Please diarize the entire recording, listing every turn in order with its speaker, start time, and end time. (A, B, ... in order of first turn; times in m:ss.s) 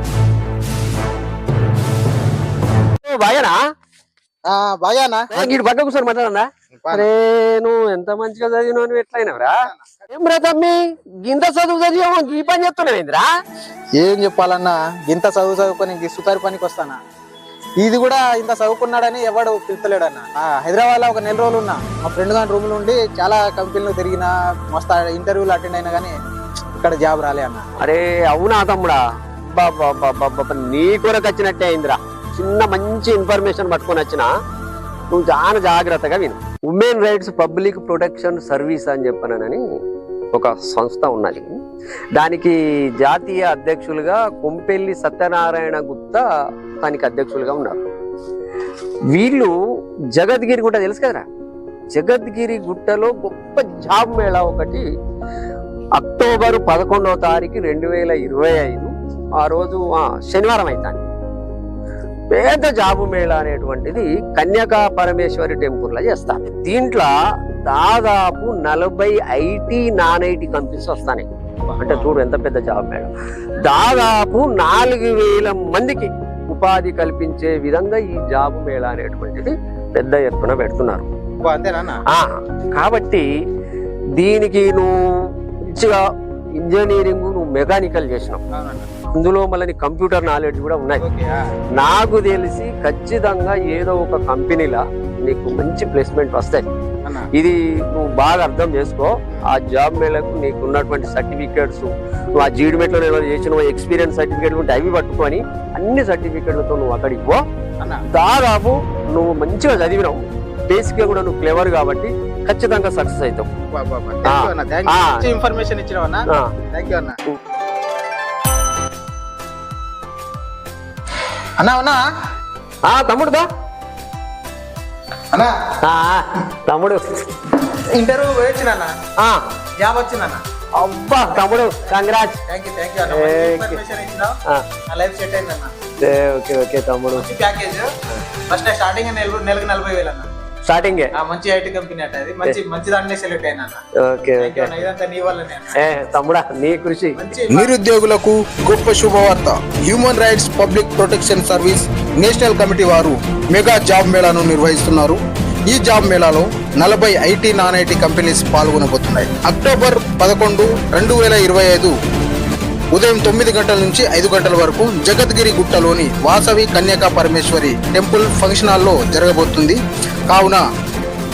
0:03.0-0:03.6 A
0:04.4-0:05.5 B
0:05.3-0:13.3 A
0:14.0-0:17.0 B
0:17.8-0:26.2 B
0:26.8-0:27.6 B
0:27.8-0:34.3 A
0:35.1-0:39.6 A
0:40.3-0:41.5 A
0:42.1-0:46.3 A
0:46.8-0:47.8 A
0:49.1-0:49.5 A
0:50.1-0:51.2 A
0:51.9-0:54.8 A
0:56.0-1:01.0 A
1:02.3-1:07.1 A
1:07.6-1:11.3 A
1:11.8-1:12.1 B
1:11.8-1:13.1 A
1:13.6-1:21.0 A
1:21.4-1:22.0 B
1:22.1-1:23.2 A
1:24.2-1:26.0 A
1:26.6-1:28.4 A
1:28.5-1:28.9 B
1:29.1-1:31.0 A
1:31.0-1:31.4 B
1:31.8-1:36.7 A
1:37.3-1:47.4 A
1:48.1-1:53.5 A
1:53.8-1:57.2 B
1:54.2-1:55.2 A
2:01.6-2:02.0 B
2:02.8-2:03.4 A
2:05.8-2:07.0 A
2:07.9-2:08.9 B
2:09.2-2:09.4 A
2:09.8-2:10.4 B
2:10.8-2:12.4 A
2:12.5-2:14.4 B
2:13.1-2:13.8 A
2:14.9-2:15.7 B
2:16.0-2:17.2 A
2:17.2-2:17.9 B
2:18.5-2:20.3 B
2:20.7-2:21.1 A
2:21.1-2:23.8 B
2:24.0-2:24.8 A
2:24.4-2:25.8 B
2:25.8-2:27.2 A
2:27.1-2:27.7 B
2:27.5-2:35.2 C
2:35.7-2:41.9 C
2:42.9-2:49.8 C
2:50.3-2:50.6 C